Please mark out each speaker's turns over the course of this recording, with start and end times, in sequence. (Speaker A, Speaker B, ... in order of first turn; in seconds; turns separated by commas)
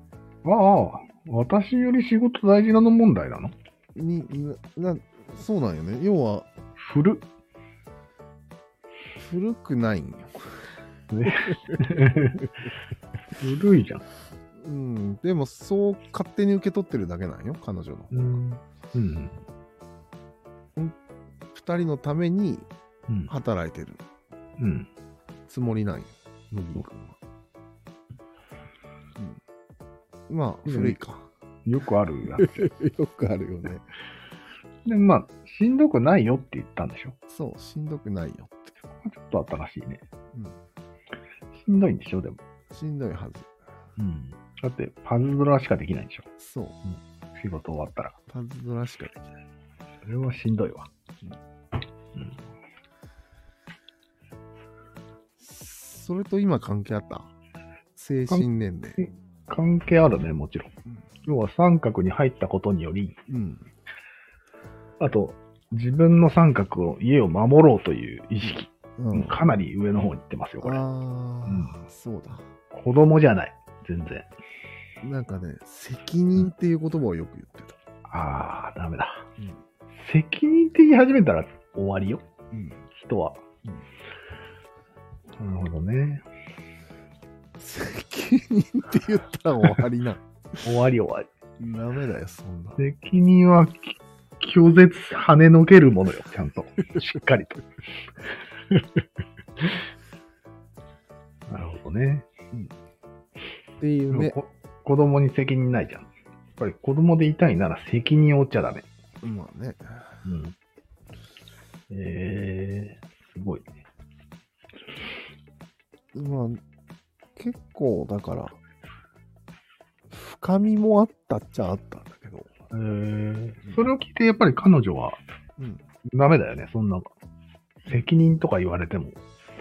Speaker A: 0.4-3.5, Speaker B: 4.0-6.5, Speaker A: 6.8-7.2, Speaker B: 9.2-10.7, Speaker A: 11.1-12.5, Speaker B: 11.3-11.8, Speaker A: 13.4-14.0, Speaker B: 14.6-18.4, Speaker A: 18.1-19.4, Speaker B: 21.5-22.7, Speaker B: 23.3-24.0, Speaker A: 24.6-24.9, Speaker B: 25.5-27.2, Speaker B: 30.3-31.3, Speaker A: 30.7-31.0, Speaker A: 31.7-32.7, Speaker B: 32.4-33.9, Speaker A: 34.9-37.2, Speaker B: 37.3-38.8, Speaker A: 39.0-40.0, Speaker A: 41.5-42.4, Speaker B: 42.7-43.5, Speaker A: 44.0-46.3, Speaker B: 46.4-46.8, Speaker A: 46.9-48.2, Speaker B: 48.3-49.5, Speaker A: 50.0-50.9, Speaker B: 55.4-57.3, Speaker B: 58.0-59.1, Speaker A: 59.0-60.7, Speaker A: 61.2-63.1, Speaker B: 63.3-63.7, Speaker A: 65.0-70.8, Speaker B: 68.4-69.4, Speaker B: 70.6-72.5, Speaker A: 71.5-71.8, Speaker A: 72.7-74.3, Speaker B: 75.0-77.8, Speaker A: 78.1-79.2, Speaker A: 79.9-82.2, Speaker B: 82.5-82.8, Speaker A: 83.0-83.4, Speaker A: 85.4-86.2, Speaker B: 87.6-90.6, Speaker A: 90.6-91.3, Speaker B: 91.6-92.8, Speaker A: 92.8-97.7, Speaker A: 101.5-102.3, Speaker B: 103.8-104.4, Speaker A: 104.1-108.8, Speaker B: 109.2-110.2, Speaker A: 110.2-110.5, Speaker A: 111.9-113.7, Speaker B: 116.1-116.6, Speaker B: 117.4-118.6, Speaker B: 120.1-122.5, Speaker A: 122.7-125.2, Speaker B: 123.6-123.9, Speaker B: 125.6-125.9, Speaker A: 126.0-127.1, Speaker A: 127.8-129.2